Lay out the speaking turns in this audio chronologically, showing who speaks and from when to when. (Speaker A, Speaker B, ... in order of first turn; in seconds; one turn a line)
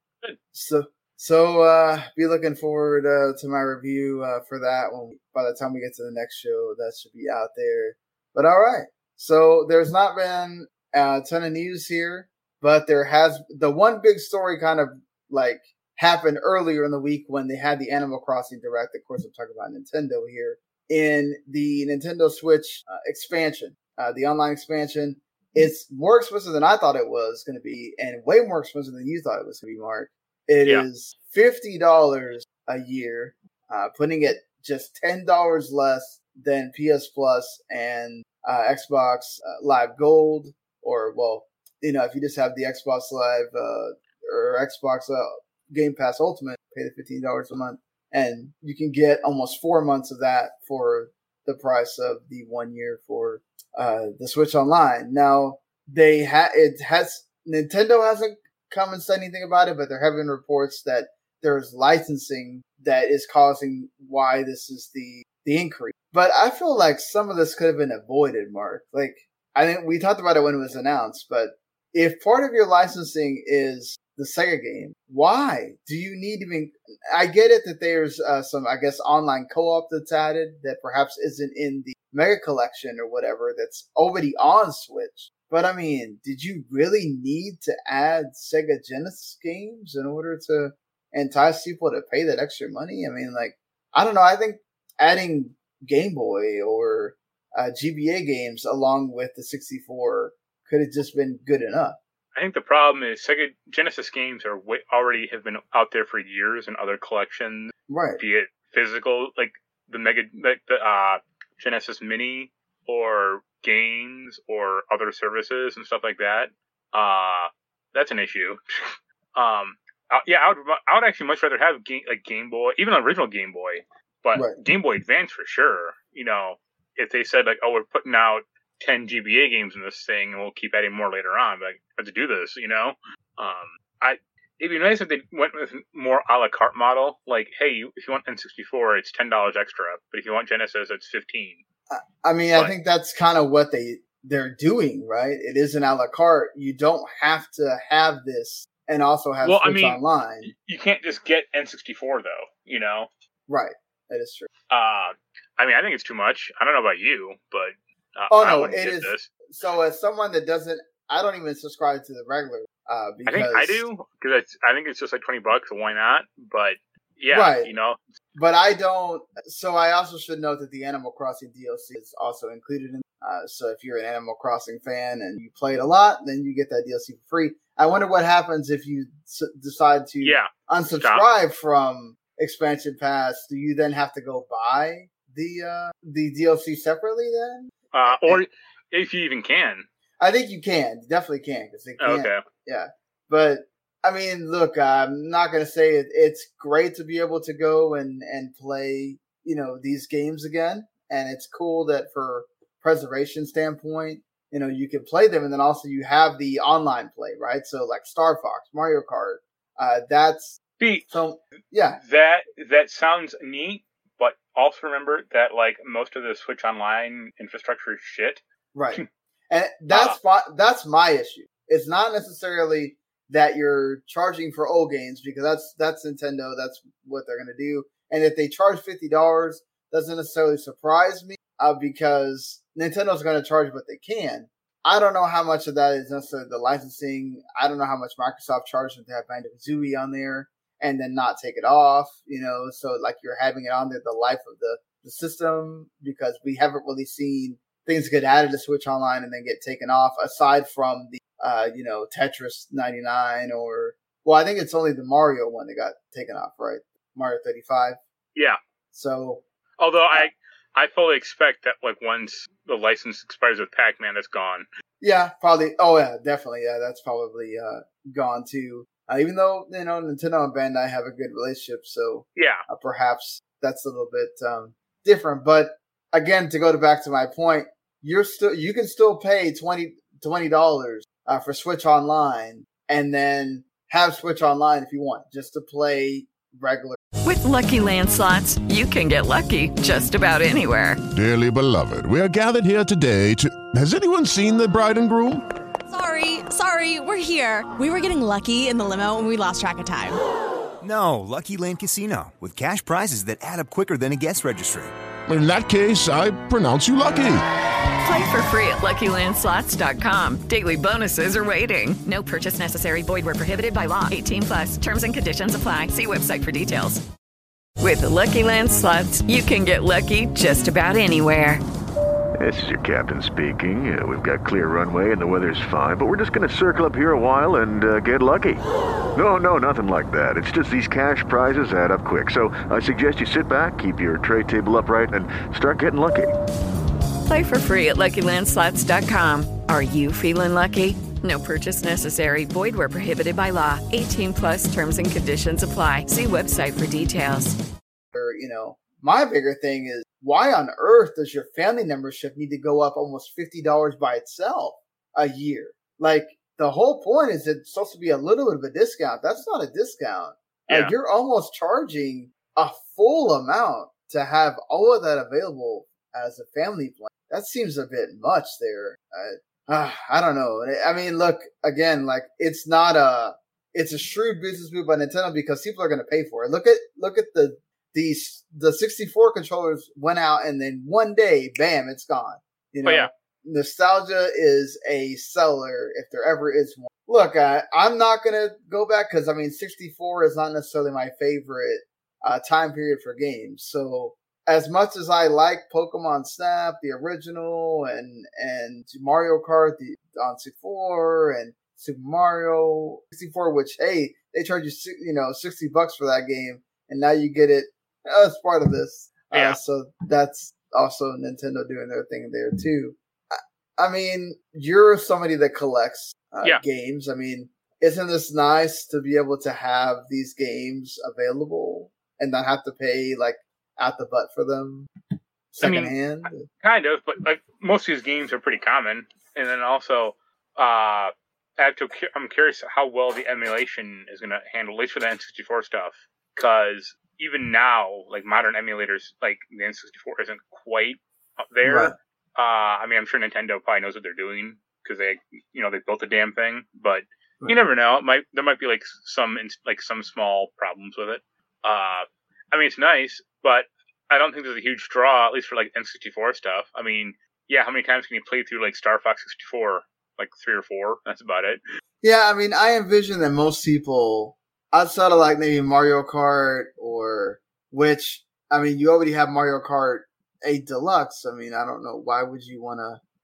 Speaker A: 0.5-102.0
Speaker B: 102.3-141.6
Speaker A: 107.9-108.2
Speaker A: 141.9-150.5
Speaker B: 149.4-153.1
Speaker A: 153.5-154.5
Speaker B: 154.7-159.3
Speaker A: 158.3-163.9
Speaker B: 163.3-168.0
Speaker A: 167.3-167.7
Speaker A: 168.3-188.4
Speaker B: 180.2-181.3
Speaker B: 187.9-189.9
Speaker A: 190.2-212.0
Speaker B: 192.0-192.4
Speaker B: 210.8-211.1
Speaker B: 212.0-218.4
Speaker A: 218.7-258.0
Speaker B: 219.9-220.2
Speaker A: 258.9-259.4
Speaker B: 259.8-264.7
Speaker A: 265.0-287.0
Speaker B: 272.4-272.6
Speaker C: 287.2-291.0
Speaker D: 291.1-295.4
Speaker E: 295.9-300.2
Speaker F: 300.8-304.9
Speaker D: 305.3-307.4
Speaker C: 308.0-317.0
Speaker C: 317.8-321.6
Speaker G: 322.4-336.3
Speaker C: 337.3-347.6
Speaker A: 348.1-424.9
Speaker B: 360.7-360.9
Speaker B: 382.9-383.1
Speaker B: 409.3-409.6
Speaker A: 425.5-426.5
Speaker B: 425.6-425.9
Speaker B: 426.6-461.6
Speaker A: 441.6-441.9
Speaker A: 462.0-473.0